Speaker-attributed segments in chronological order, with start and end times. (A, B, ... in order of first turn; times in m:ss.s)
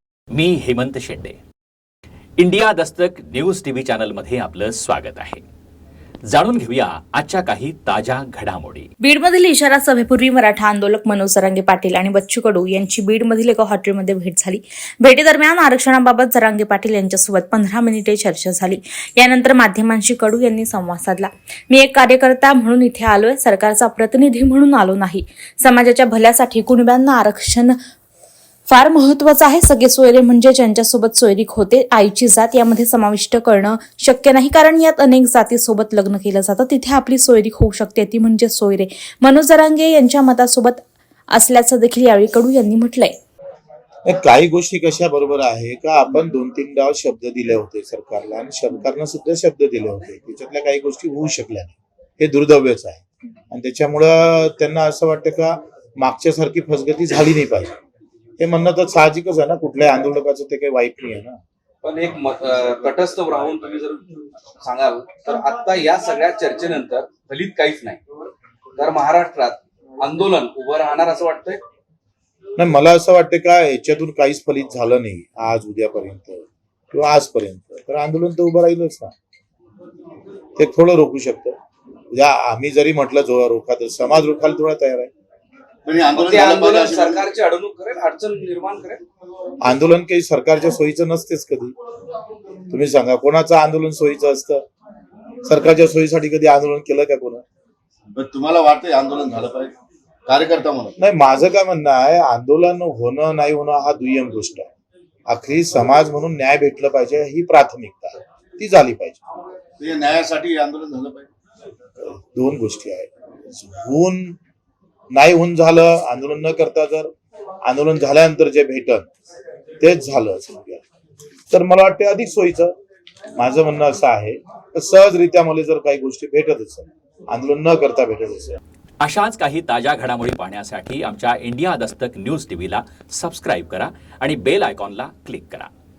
0:00.3-0:01.4 A
0:02.4-0:05.4 A
0:06.3-0:08.9 A
0:09.0-0:27.8 B
0:28.7-0:43.2 B
0:44.1-0:57.7 C
0:58.4-1:01.4 C
1:01.8-1:11.6 D
1:12.6-1:19.1 C
1:20.6-1:21.6 C
1:22.1-1:25.1 C
1:25.8-1:27.3 E
1:26.2-1:29.0 D
1:29.6-1:31.7 C
1:32.7-1:34.6 C
1:35.4-1:37.4 C
1:38.1-1:39.8 E
1:40.3-1:41.0 E
1:41.0-1:44.7 C
1:45.3-1:49.2 C
1:49.8-1:51.3 E
1:52.0-1:54.4 C
1:55.1-1:57.1 C
1:57.6-1:59.1 C
1:59.8-2:00.8 C
2:01.5-2:02.7 C
2:03.4-2:08.6 C
2:09.0-2:15.7 A